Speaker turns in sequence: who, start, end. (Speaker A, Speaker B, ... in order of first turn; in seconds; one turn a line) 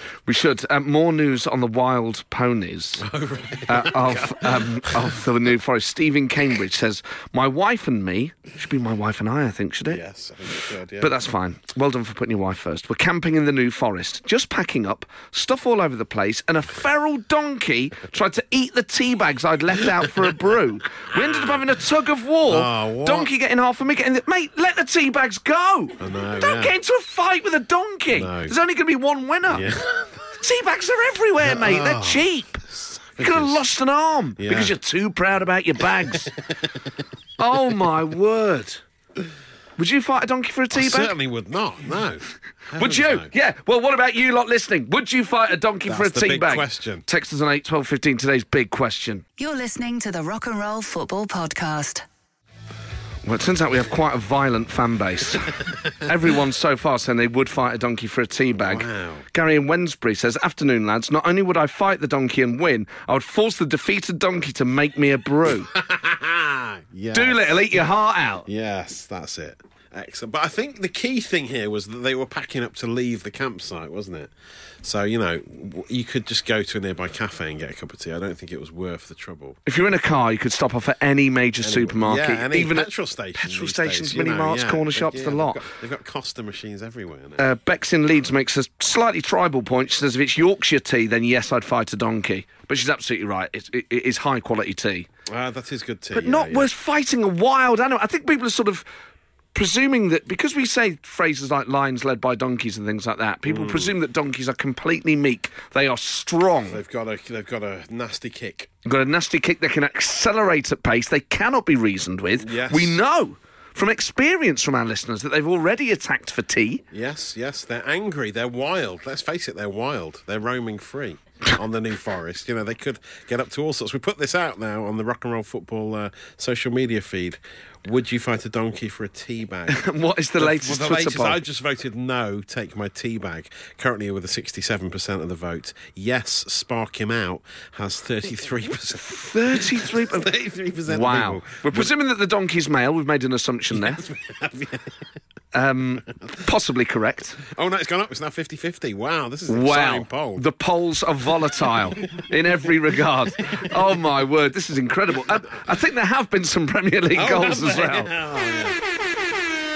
Speaker A: 0.2-3.1
Speaker B: 3.0-5.2
Speaker A: 3.7-10.0
Speaker B: 9.9-11.1
Speaker A: 11.0-29.6
Speaker B: 21.1-21.7
Speaker B: 22.5-23.3
Speaker B: 26.0-26.7
Speaker B: 28.1-28.6
Speaker B: 29.5-30.2
Speaker A: 30.4-32.6
Speaker B: 31.4-33.6
Speaker A: 33.2-36.3
Speaker B: 34.4-34.7
Speaker B: 36.0-36.9
Speaker A: 37.4-38.8
Speaker A: 39.8-41.1
Speaker B: 40.7-43.3
Speaker A: 42.8-49.2
Speaker B: 45.9-47.0
Speaker C: 49.4-52.0
Speaker A: 53.2-65.7
Speaker B: 58.6-59.2
Speaker B: 65.6-67.9
Speaker A: 67.1-68.5
Speaker B: 68.5-74.3
Speaker B: 74.8-79.6
Speaker A: 79.7-85.6
Speaker B: 81.6-87.5
Speaker A: 87.4-95.1
Speaker B: 95.3-96.7
Speaker A: 96.1-98.8
Speaker A: 99.5-106.8
Speaker B: 103.5-103.9
Speaker B: 106.7-108.7
Speaker A: 108.8-116.8
Speaker B: 112.4-113.0
Speaker B: 116.9-141.9
Speaker A: 129.7-131.4
Speaker A: 139.0-140.3
Speaker A: 140.9-144.0
Speaker B: 143.7-144.9
Speaker A: 145.5-147.4
Speaker B: 147.4-150.4
Speaker A: 149.5-158.1
Speaker B: 153.5-153.8
Speaker B: 157.1-158.8